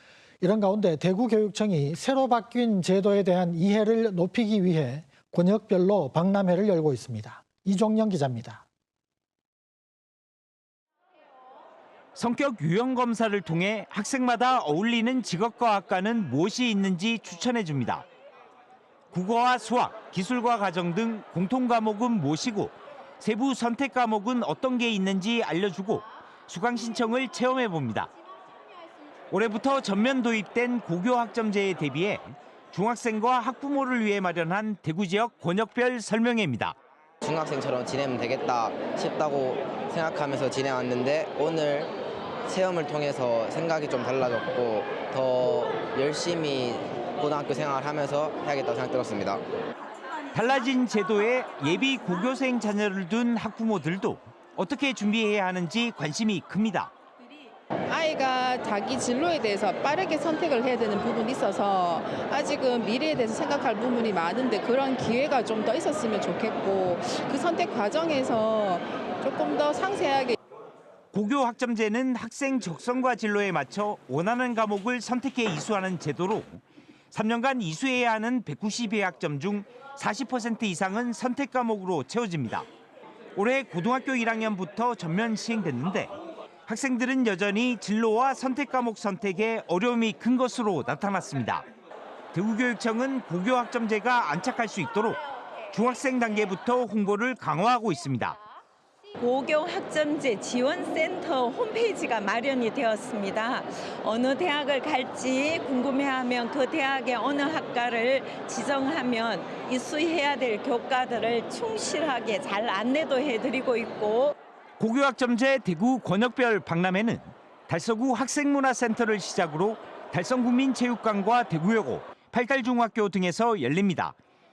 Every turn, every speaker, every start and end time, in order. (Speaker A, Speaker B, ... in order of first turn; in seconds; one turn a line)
Speaker A: 0.4-8.7
Speaker B: 12.2-18.0
Speaker B: 19.1-28.1
Speaker B: 29.3-36.8
Speaker C: 37.2-41.9
Speaker C: 42.5-49.4
Speaker B: 50.3-56.9
Speaker D: 57.9-70.4
Speaker B: 71.1-82.7
Speaker B: 83.4-86.1
Speaker B: 86.7-91.7
Speaker B: 92.3-98.4
Speaker E: 99.2-114.4
Speaker B: 114.8-124.2